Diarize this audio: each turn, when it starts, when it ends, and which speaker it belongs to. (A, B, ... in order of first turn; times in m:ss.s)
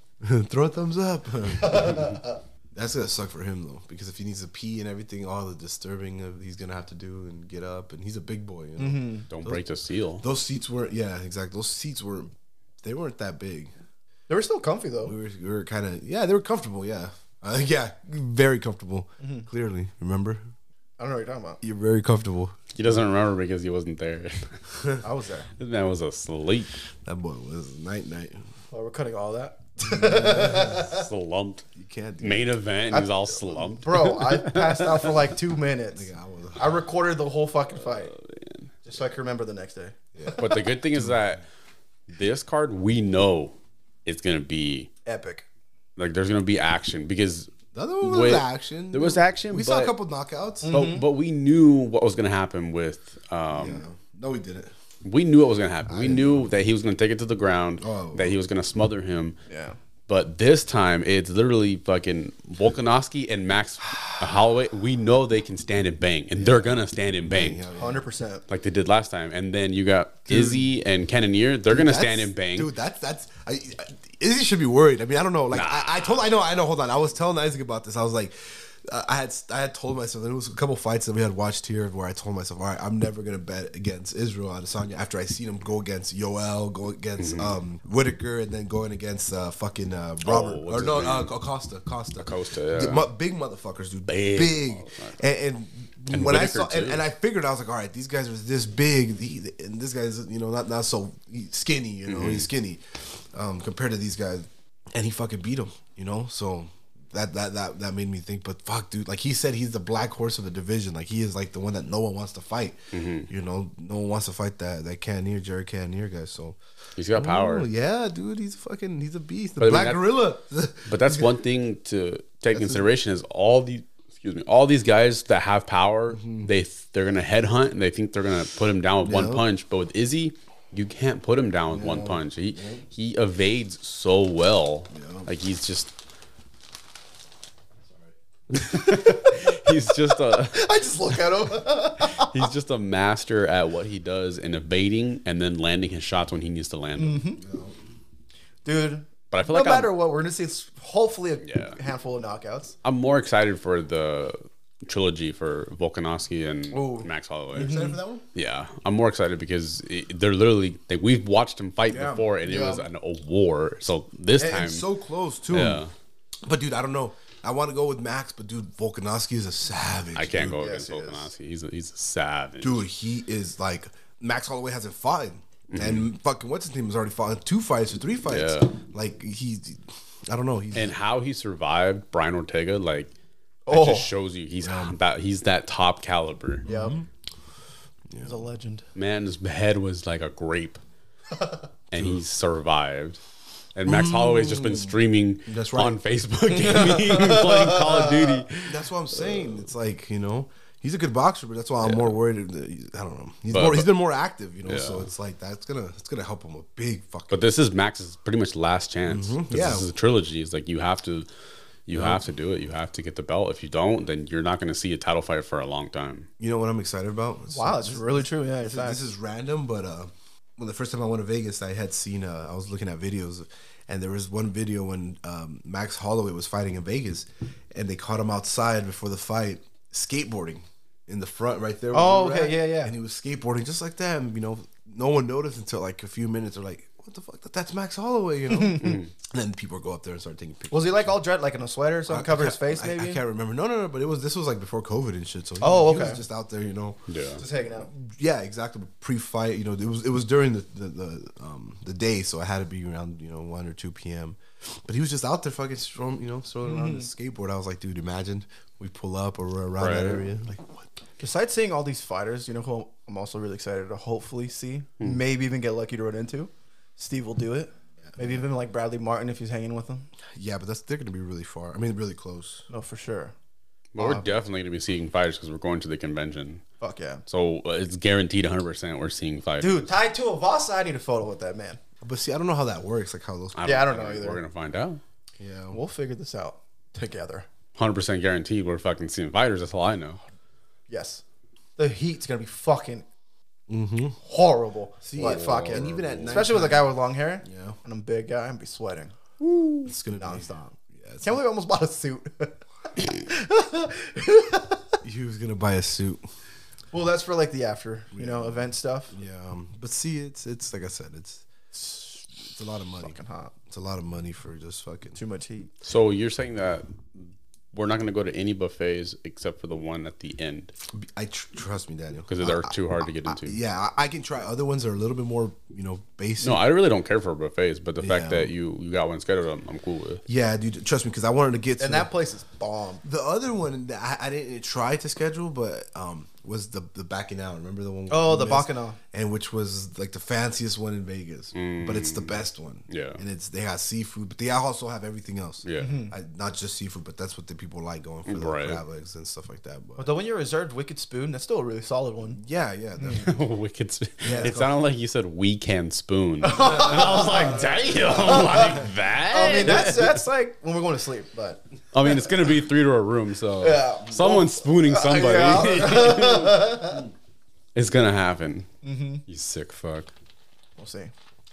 0:00.2-0:02.2 A
0:01.6-0:02.4 B
0:02.7-0:09.6 A
0:08.8-0:09.3 B
0:09.3-0:10.2 C
0:10.2-0:12.3 A
0:12.8-0:13.7 A
0:14.3-0:15.1 B
0:15.0-0:20.5 A
0:19.2-0:19.5 B
0:21.0-0:21.6 B
0:21.6-0:22.6 A
0:22.7-0:24.6 C
0:25.0-0:25.5 B
0:25.6-0:26.8 C
0:27.0-0:28.4 A
0:28.7-0:31.0 B
0:29.8-0:30.9 A
0:30.4-0:31.7 C
0:31.8-0:32.6 A
0:32.2-0:35.1 C
0:32.9-0:38.1 B
0:35.9-0:36.8 A
0:38.1-0:38.6 C
0:38.8-0:40.6 B
0:40.1-0:41.1 A
0:40.4-0:41.4 C
0:42.1-0:43.5 C
0:44.0-0:44.9 C
0:45.0-0:45.4 B
0:46.0-0:47.5 C
0:47.7-0:50.8 A
0:48.0-0:50.0 C
0:50.6-0:51.0 B
0:50.7-0:53.8 C
0:53.5-0:54.7 A
0:55.0-0:59.4 C
0:55.9-0:56.5 A
0:57.8-0:58.4 A
0:59.5-0:59.8 B
1:00.1-1:07.6 C
1:06.4-1:08.0 A
1:07.7-1:08.4 B
1:08.5-1:12.7 C
1:10.3-1:10.6 A
1:11.7-1:56.6 A
1:15.5-1:16.2 C
1:27.2-1:27.6 C
1:30.2-1:31.3 C
1:32.2-1:33.1 C
1:34.1-1:35.2 C
1:36.1-1:37.0 C
1:42.1-1:42.5 C
1:52.9-1:53.3 C
1:57.0-1:57.7 C
1:57.1-2:01.4 A
1:59.6-2:00.1 C
2:00.9-2:15.9 C
2:02.5-2:02.9 A
2:06.1-2:06.5 A
2:09.0-2:09.4 A
2:11.7-2:12.8 A
2:14.9-2:15.3 A
2:18.5-2:20.9 C
2:18.6-2:19.7 B
2:20.2-2:22.5 B
2:22.0-2:27.2 C
2:27.0-2:27.4 B
2:27.4-2:27.7 A
2:28.6-2:32.7 B
2:29.3-2:29.9 C
2:31.4-2:31.8 C
2:32.8-2:37.8 C
2:36.7-2:38.0 B
2:37.5-2:38.2 A
2:38.3-2:44.9 C
2:41.9-2:42.8 B
2:44.4-2:45.8 A
2:45.5-2:45.9 C
2:46.4-2:50.6 A
2:50.1-2:52.8 C
2:50.6-2:51.3 B
2:52.6-3:00.9 A
2:55.7-2:56.1 C
2:58.3-2:58.7 C
3:00.7-3:03.1 C
3:03.7-3:04.1 B
3:03.7-3:06.7 C
3:04.6-3:04.9 A
3:06.6-3:07.1 A
3:06.6-3:07.0 B
3:08.1-3:08.4 A
3:08.2-3:08.8 B
3:08.9-3:10.8 C
3:11.9-3:13.2 C
3:13.7-3:19.5 C
3:13.8-3:16.0 A
3:16.5-3:18.4 B
3:18.6-3:27.5 A
3:21.8-3:22.1 C
3:23.5-3:23.9 C
3:24.6-3:25.1 C
3:27.3-3:31.3 C
3:29.1-3:29.9 A
3:31.9-3:36.3 C
3:31.9-3:32.2 A
3:36.4-4:01.2 A
3:37.5-3:39.0 B
3:51.9-3:52.9 B
3:58.5-3:59.0 B
4:00.7-4:03.2 B
4:02.1-4:07.1 A
4:05.6-4:06.2 B
4:07.1-4:07.4 C
4:07.4-4:07.9 B
4:07.7-4:20.9 A
4:16.6-4:17.1 B
4:19.8-4:20.2 C
4:21.2-4:30.1 B
4:30.3-4:32.6 A
4:32.7-4:33.3 B
4:33.9-4:36.6 C
4:34.0-4:34.2 B
4:36.8-4:37.2 B
4:37.3-4:39.9 C
4:39.6-4:41.8 B
4:42.0-4:43.6 A
4:43.6-4:45.0 C
4:43.6-4:44.4 B
4:45.4-4:45.8 A
4:45.7-4:47.5 B
4:47.8-4:50.2 C
4:50.9-4:51.2 B
4:51.8-4:53.0 B
4:53.7-4:54.2 A
4:54.2-5:05.0 B
4:55.0-4:56.9 A
4:55.2-4:56.5 C
4:57.4-4:57.8 A
4:59.8-5:01.4 A
5:05.0-5:06.2 A
5:06.9-5:09.1 B
5:08.1-5:11.4 A
5:11.7-5:12.3 B
5:12.5-5:13.2 A
5:13.0-5:13.5 B
5:13.7-5:15.2 A
5:15.1-5:15.7 B
5:15.8-5:20.7 C
5:20.9-5:26.6 A
5:22.3-5:23.6 C
5:26.4-5:30.2 C
5:28.0-5:28.5 A
5:30.3-5:32.1 A
5:31.8-5:33.0 B
5:33.0-5:50.1 A
5:38.1-5:39.0 B
5:41.5-5:43.2 C
5:45.6-5:46.0 C
5:45.8-5:46.1 B
5:48.3-5:48.8 C
5:50.0-5:52.4 B
5:52.4-5:53.3 A
5:53.0-5:53.3 B
5:53.1-6:00.2 C
5:54.2-5:54.8 A
5:54.3-5:54.6 B
5:56.4-6:02.3 B
5:56.7-5:57.7 A
6:01.9-6:06.8 C
6:03.6-6:07.0 B
6:07.7-6:08.7 C
6:08.8-6:09.2 B
6:09.3-6:10.1 C
6:10.8-6:11.1 B